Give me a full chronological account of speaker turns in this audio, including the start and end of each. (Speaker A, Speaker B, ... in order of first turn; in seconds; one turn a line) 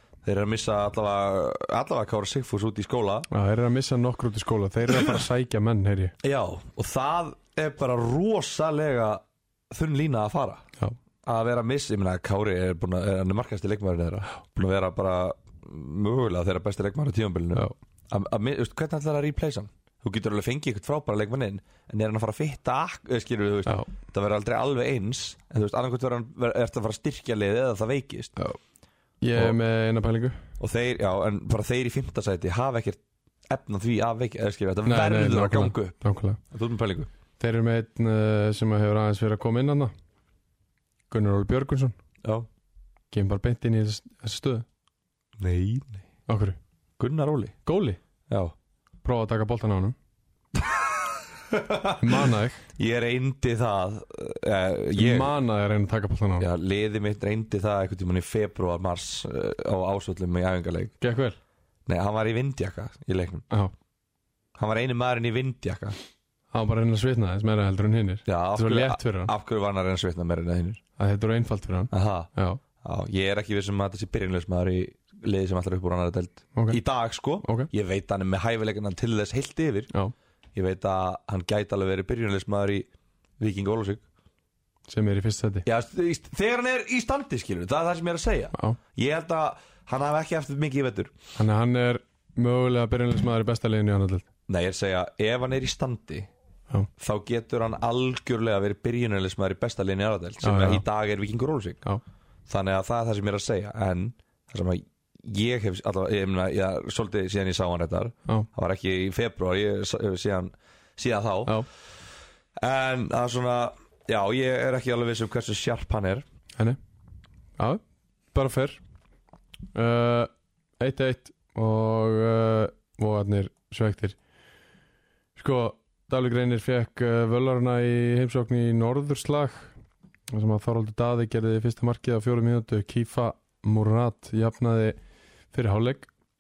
Speaker A: 0.2-3.3
Speaker B: 3.3-6.1
Speaker A: 6.2-10.6
Speaker A: 11.2-28.3
Speaker B: 29.2-30.4
Speaker A: 30.6-36.0
Speaker B: 34.9-36.4
Speaker A: 36.5-37.1
Speaker B: 37.4-39.9
Speaker B: 41.1-41.9
Speaker B: 43.1-44.6
Speaker A: 45.4-46.0
Speaker B: 46.3-46.6
Speaker A: 47.0-47.5
Speaker B: 47.6-48.0
Speaker A: 48.3-48.5
Speaker B: 49.0-49.9
Speaker A: 50.6-52.0
Speaker B: 52.0-52.6
Speaker A: 52.8-55.3
Speaker B: 54.9-56.5
Speaker A: 56.4-61.0
Speaker B: 61.0-61.4
Speaker A: 61.9-63.5
Speaker A: 64.5-66.0
Speaker B: 66.5-69.3
Speaker A: 68.3-70.8
Speaker B: 71.0-72.6
Speaker A: 71.9-72.3
Speaker A: 72.8-79.9
Speaker B: 77.4-77.7
Speaker A: 80.5-82.9
Speaker A: 83.4-84.0
Speaker B: 84.9-85.6
Speaker A: 85.6-91.1
Speaker B: 88.5-88.8
Speaker B: 91.4-94.2
Speaker A: 94.5-96.3
Speaker A: 97.0-101.8
Speaker B: 100.4-100.8
Speaker A: 102.5-111.6
Speaker A: 112.6-116.2
Speaker B: 118.3-118.8
Speaker B: 119.7-124.2
Speaker B: 125.4-129.7
Speaker B: 130.3-135.0
Speaker B: 135.5-136.1